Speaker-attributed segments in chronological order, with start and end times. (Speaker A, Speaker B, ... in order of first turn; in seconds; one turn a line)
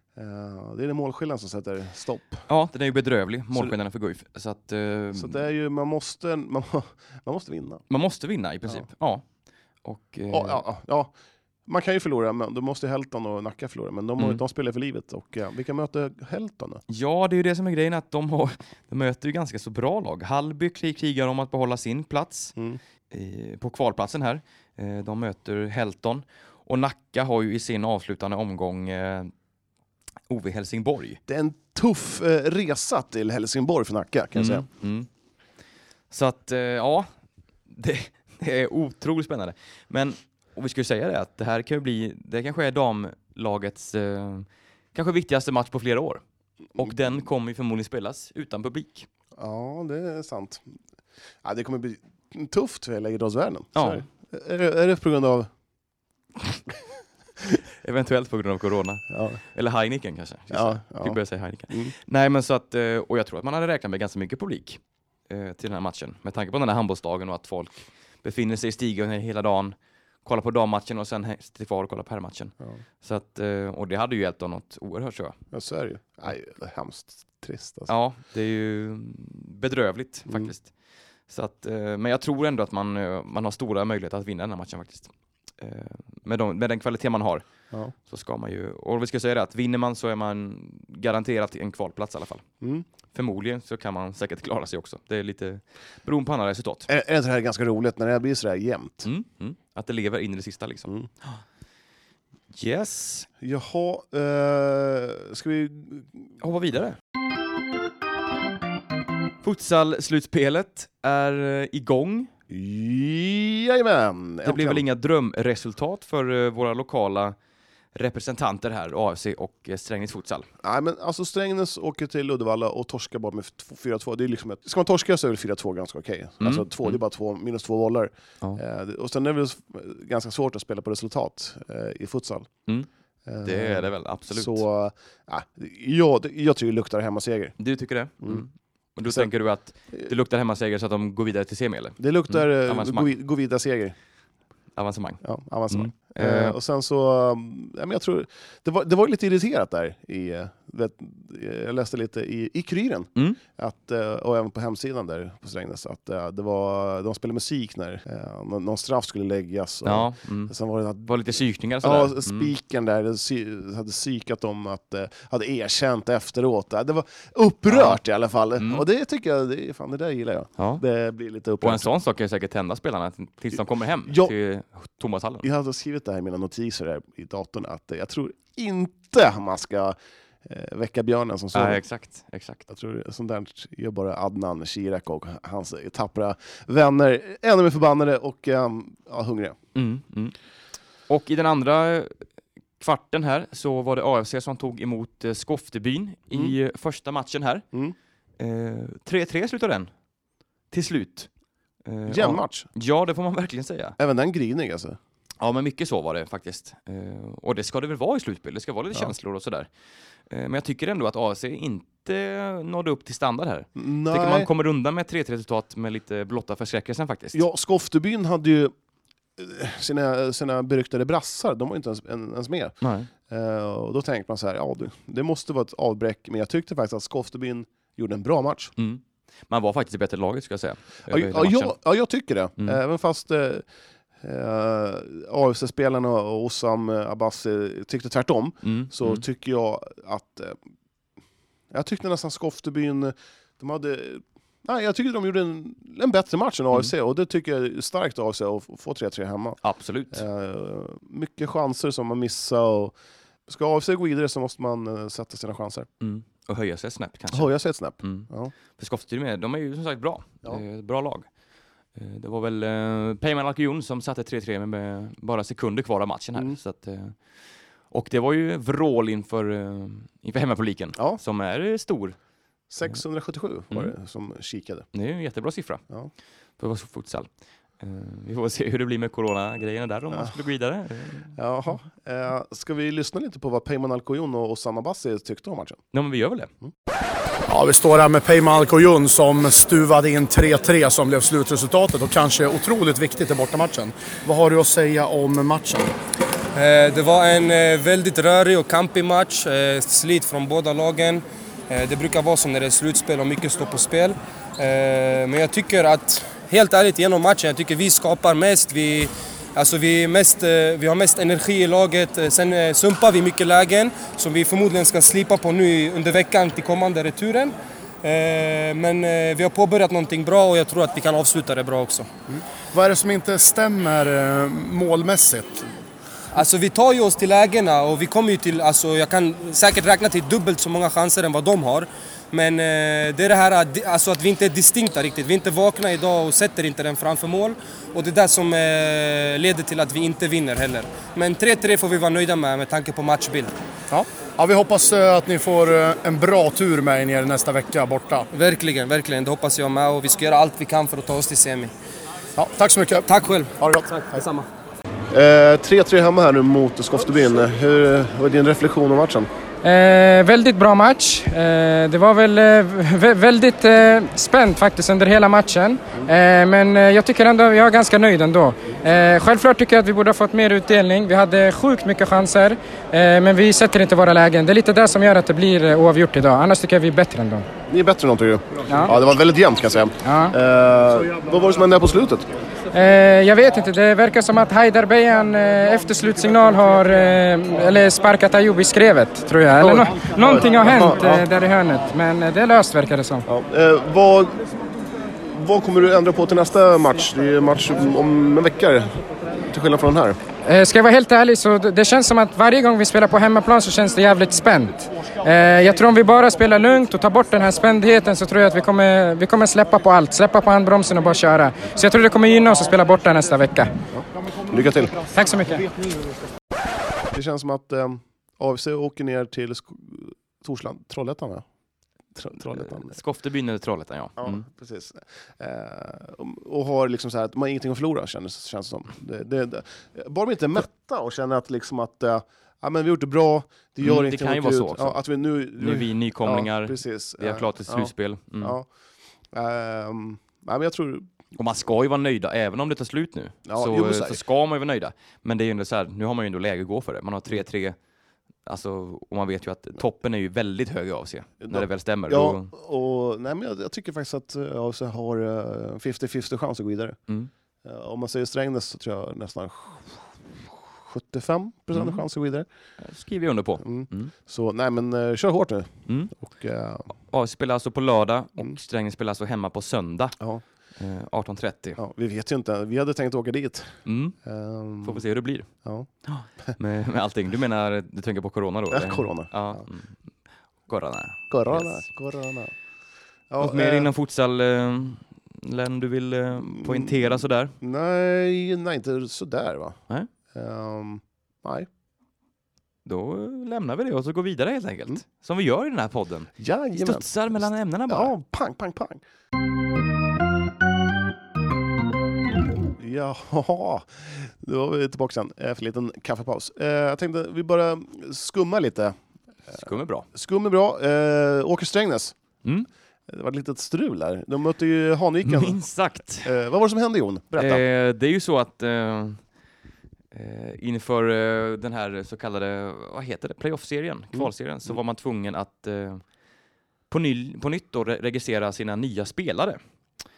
Speaker A: 0.1-2.5
Speaker B: 2.5-5.4
Speaker A: 5.1-7.8
Speaker B: 7.9-9.2
Speaker B: 9.8-10.6
Speaker A: 10.3-11.1
Speaker A: 11.7-16.8
Speaker B: 16.9-22.5
Speaker B: 23.1-29.3
Speaker B: 30.3-31.2
Speaker A: 31.3-34.6
Speaker B: 34.3-35.1
Speaker B: 36.1-37.1
Speaker B: 37.7-46.2
Speaker B: 46.7-49.1
Speaker A: 49.4-50.6
Speaker A: 51.4-55.5
Speaker B: 53.7-54.0
Speaker B: 57.8-75.4
Speaker A: 59.1-59.4
Speaker A: 60.5-61.2
Speaker A: 75.5-77.9
Speaker B: 77.9-80.7
Speaker B: 81.3-87.4
Speaker B: 88.1-92.4
Speaker B: 93.1-96.9
Speaker A: 96.9-99.1
Speaker B: 99.0-101.4
Speaker B: 102.5-103.3
Speaker A: 103.4-106.3
Speaker B: 106.4-107.0
Speaker B: 109.4-112.3
Speaker A: 112.5-114.8
Speaker B: 114.4-117.3
Speaker B: 117.9-120.5
Speaker A: 120.6-132.5
Speaker B: 126.4-127.0
Speaker A: 133.2-137.6
Speaker B: 133.4-134.6
Speaker B: 137.6-143.1
Speaker A: 142.0-143.9
Speaker B: 144.8-146.6
Speaker A: 145.2-161.3
Speaker B: 159.8-160.5
Speaker B: 161.0-162.5
Speaker A: 161.8-171.9
Speaker B: 167.7-168.0
Speaker B: 168.6-168.8
Speaker B: 171.6-175.5
Speaker A: 174.1-174.3
Speaker A: 175.4-181.8
Speaker B: 181.5-182.7
Speaker A: 182.7-189.6
Speaker B: 189.7-190.3
Speaker B: 191.1-192.2
Speaker B: 192.8-197.6
Speaker B: 198.4-199.9
Speaker B: 200.7-201.3
Speaker B: 201.8-204.0
Speaker A: 202.1-202.7
Speaker A: 204.0-205.0
Speaker B: 205.4-209.7
Speaker B: 210.3-217.4
Speaker A: 213.8-214.5
Speaker A: 217.3-218.7
Speaker A: 219.4-222.7
Speaker B: 222.8-223.1
Speaker A: 223.3-228.7
Speaker B: 228.8-231.8
Speaker A: 231.1-233.6
Speaker A: 234.2-240.6
Speaker B: 238.6-239.2
Speaker A: 241.7-249.6
Speaker B: 249.6-250.2
Speaker A: 250.1-252.9
Speaker A: 253.5-255.9
Speaker B: 256.0-261.3
Speaker A: 257.3-258.5
Speaker B: 261.9-267.3
Speaker B: 267.9-272.2
Speaker A: 270.9-271.2
Speaker A: 272.7-274.9
Speaker B: 274.9-275.8
Speaker B: 276.6-277.3
Speaker B: 277.8-281.8
Speaker A: 281.4-285.8
Speaker B: 285.9-286.5
Speaker C: 287.5-295.9
Speaker D: 296.5-322.1
Speaker C: 322.4-325.7
Speaker D: 326.3-343.5
Speaker C: 343.9-348.3
Speaker D: 348.3-351.7
Speaker C: 352.4-353.1
Speaker D: 353.1-354.4
Speaker A: 355.1-359.3
Speaker E: 359.6-377.4
Speaker A: 377.7-382.3
Speaker E: 380.0-380.3
Speaker E: 382.7-393.2
Speaker A: 390.2-391.2
Speaker A: 393.3-394.4
Speaker A: 395.2-400.2
Speaker E: 400.4-413.7
Speaker A: 413.9-415.0
Speaker E: 415.1-415.7
Speaker A: 417.1-421.4
Speaker A: 422.1-422.9
Speaker B: 422.5-424.4
Speaker A: 424.2-438.6
Speaker B: 433.8-435.0
Speaker B: 435.6-438.6
Speaker A: 439.3-441.1
Speaker B: 441.4-447.8
Speaker A: 443.4-444.2
Speaker B: 448.4-452.5
Speaker A: 451.4-457.0
Speaker A: 457.6-462.4
Speaker B: 461.7-462.0
Speaker B: 462.8-464.1
Speaker A: 463.6-466.9
Speaker B: 465.9-466.1
Speaker B: 467.1-470.2
Speaker B: 470.8-471.8
Speaker A: 471.8-475.0
Speaker B: 473.9-474.1
Speaker B: 474.8-475.5
Speaker B: 476.0-480.0
Speaker A: 478.7-479.6
Speaker B: 480.7-481.8
Speaker A: 481.3-482.5
Speaker A: 483.3-483.9
Speaker B: 483.4-487.6
Speaker A: 486.4-489.8
Speaker A: 490.3-491.7
Speaker B: 492.8-498.1
Speaker A: 496.4-499.0
Speaker A: 502.7-508.9
Speaker B: 509.5-510.1
Speaker A: 510.1-512.1
Speaker A: 513.1-515.6
Speaker B: 515.2-516.3
Speaker A: 516.2-517.6
Speaker B: 517.4-519.2
Speaker B: 520.1-526.0
Speaker B: 526.9-529.6